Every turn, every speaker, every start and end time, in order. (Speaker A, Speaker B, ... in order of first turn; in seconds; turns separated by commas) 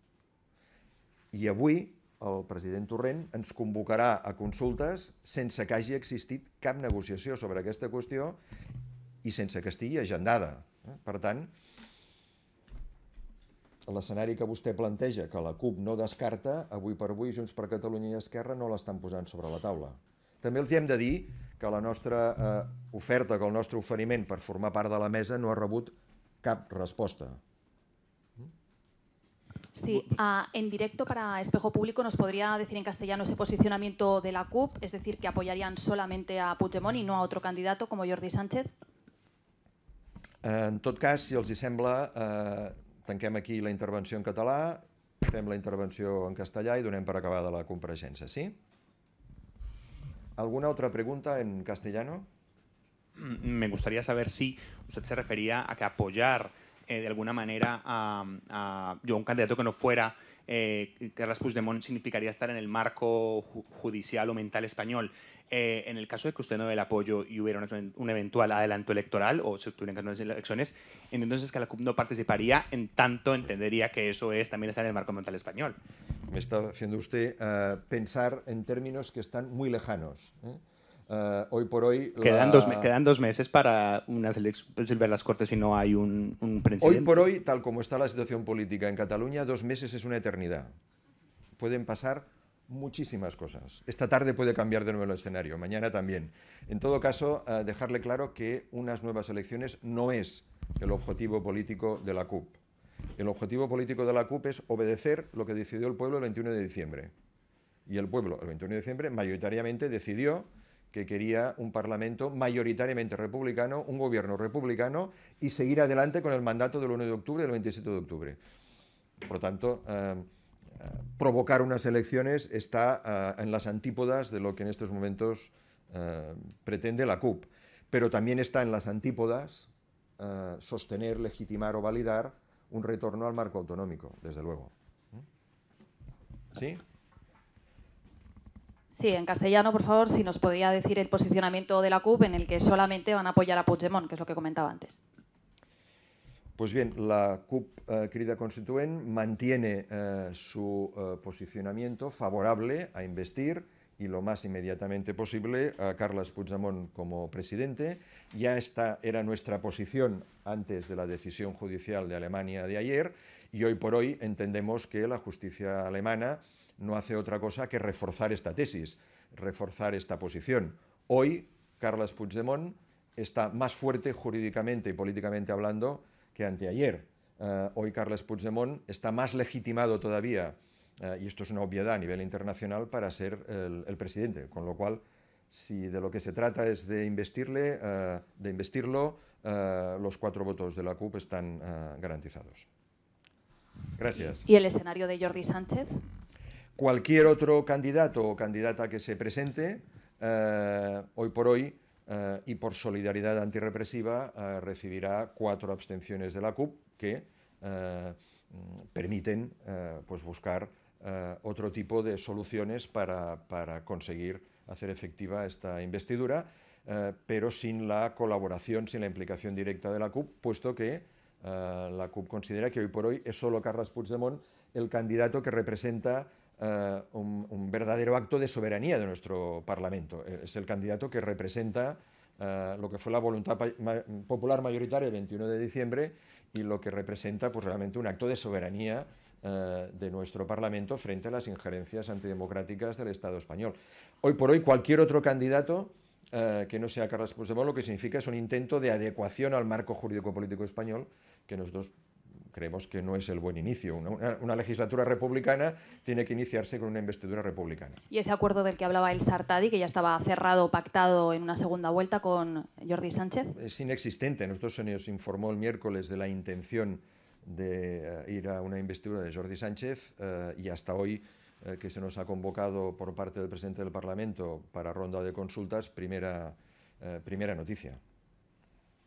Speaker A: 1.3-8.4, Speaker A: 9.2-11.5, Speaker A: 13.9-27.4, Speaker B: 29.8-38.7, Speaker A: 40.4-48.5, Speaker A: 50.4-52.3, Speaker C: 53.1-75.8, Speaker A: 76.3-82.9, Speaker C: 82.2-87.1, Speaker A: 86.8-90.7, Speaker A: 91.6-102.6, Speaker A: 103.2-107.1, Speaker A: 107.9-118.4, Speaker A: 119.2-120.3, Speaker A: 120.8-135.2, Speaker A: 136.5-136.8, Speaker B: 138.9-145.0, Speaker A: 146.6-192.7, Speaker A: 194.0-194.4, Speaker B: 194.1-196.0, Speaker A: 196.8-251.9, Speaker A: 252.5-258.0, Speaker B: 258.1-263.5, Speaker A: 263.5-278.0